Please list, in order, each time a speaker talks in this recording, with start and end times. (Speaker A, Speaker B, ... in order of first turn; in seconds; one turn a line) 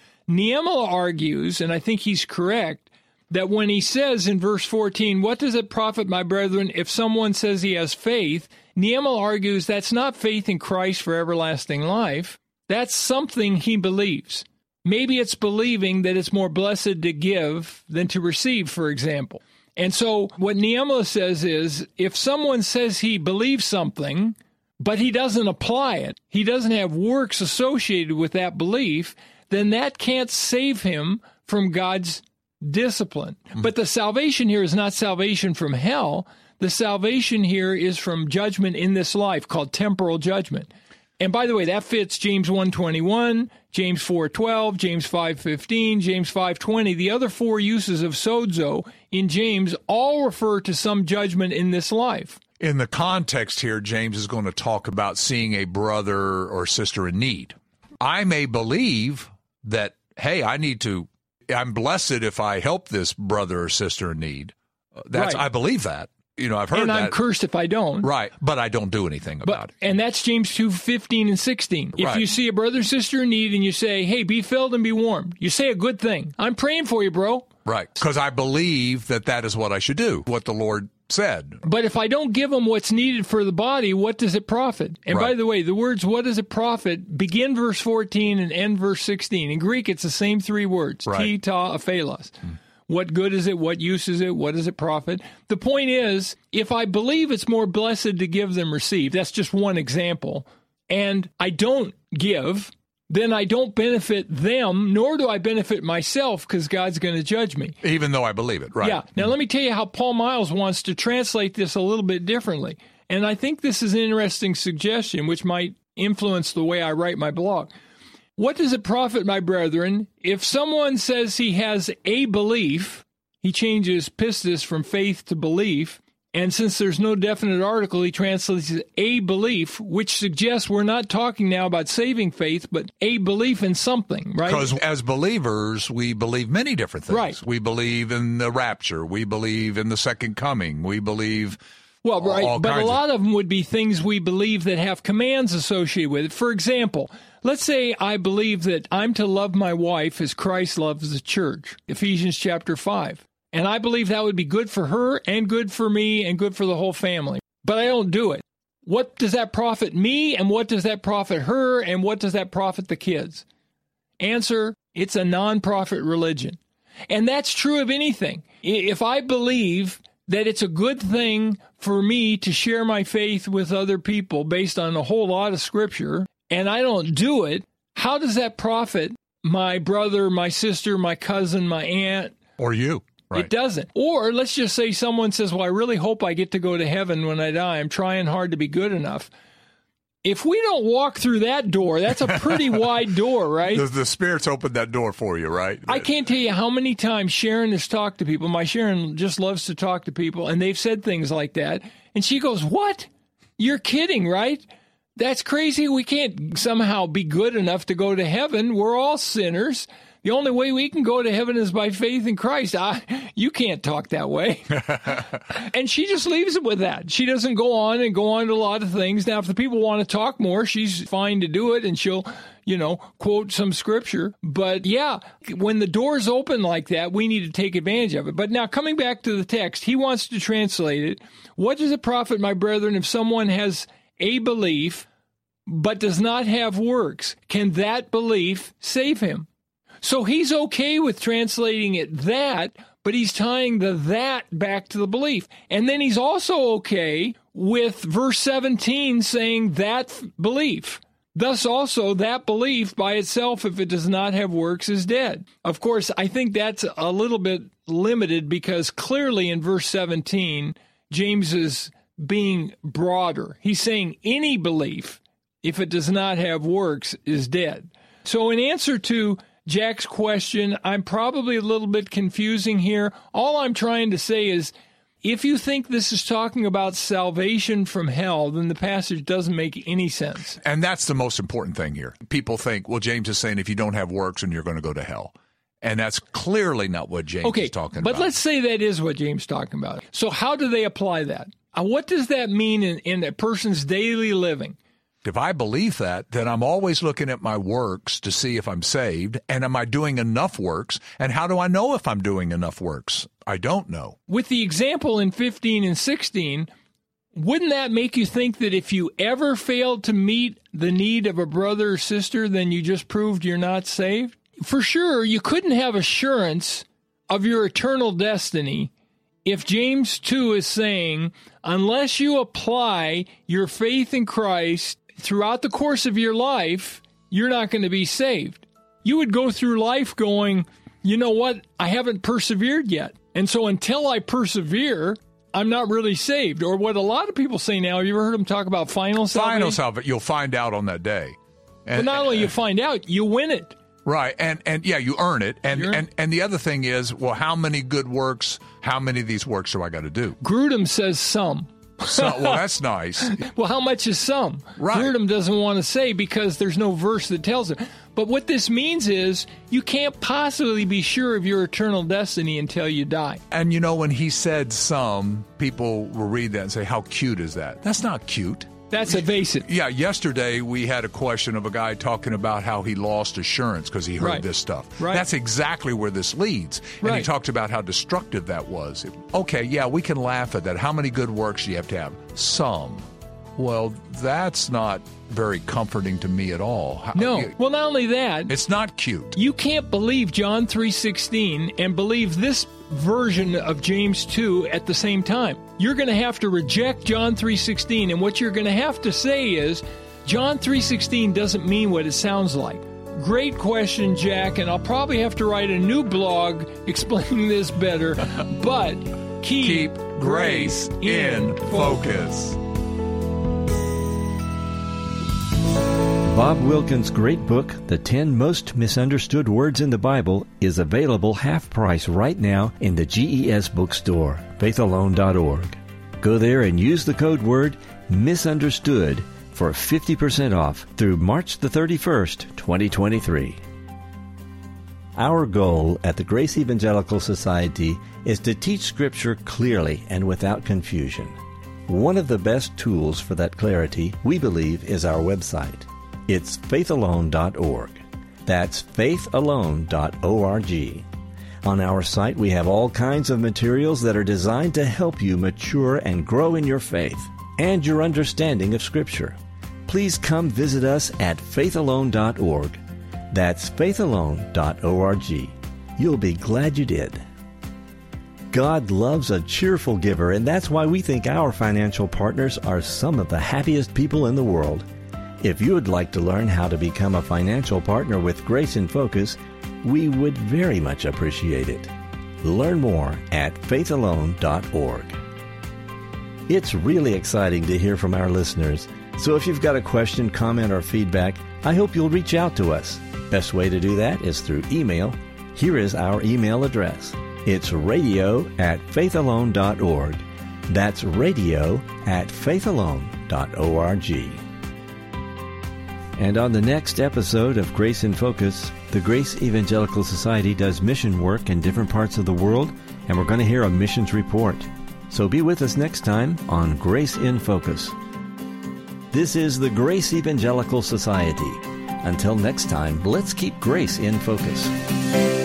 Speaker A: 0.3-52.4
Speaker B: 52.6-67.1
Speaker A: 65.1-65.4
Speaker A: 66.7-68.1
Speaker B: 68.0-69.7
Speaker A: 69.4-77.5
Speaker B: 72.0-72.2
Speaker B: 77.7-81.6
Speaker A: 81.6-107.8
Speaker B: 85.1-85.3
Speaker B: 91.1-91.3
Speaker B: 107.8-109.2
Speaker A: 108.8-117.7
Speaker A: 118.4-134.7
Speaker B: 134.4-141.6
Speaker A: 137.1-137.4
Speaker A: 142.0-163.4
Speaker B: 142.2-143.0
Speaker A: 164.2-182.4
Speaker B: 182.6-183.5
Speaker A: 183.3-189.3
Speaker A: 190.2-193.9
Speaker B: 193.7-196.1
Speaker A: 195.9-235.1
Speaker A: 235.7-239.5
Speaker A: 240.0-280.6
Speaker B: 280.6-288.3
Speaker A: 287.4-294.8
Speaker B: 295.2-304.2
Speaker A: 304.3-306.7
Speaker A: 307.4-318.9
Speaker A: 319.4-339.8
Speaker B: 339.3-342.5
Speaker A: 341.9-343.8
Speaker B: 344.0-350.4
Speaker A: 345.7-346.0
Speaker A: 350.4-352.6
Speaker B: 352.0-353.4
Speaker A: 353.3-363.4
Speaker B: 354.8-355.1
Speaker B: 363.5-368.7
Speaker A: 368.9-369.7
Speaker B: 369.6-387.5
Speaker A: 374.2-374.5
Speaker A: 375.0-375.2
Speaker A: 377.0-377.3
Speaker A: 387.1-388.5
Speaker B: 388.5-389.4
Speaker A: 389.4-412.3
Speaker B: 409.6-412.6
Speaker C: 416.3-433.6
Speaker C: 435.1-441.3
Speaker C: 441.9-451.1
Speaker C: 451.6-462.8
Speaker C: 463.3-467.2
Speaker C: 468.5-474.9
Speaker C: 475.4-481.9
Speaker C: 482.4-485.2
Speaker C: 486.5-504.4
Speaker C: 506.2-518.0
Speaker C: 519.1-524.7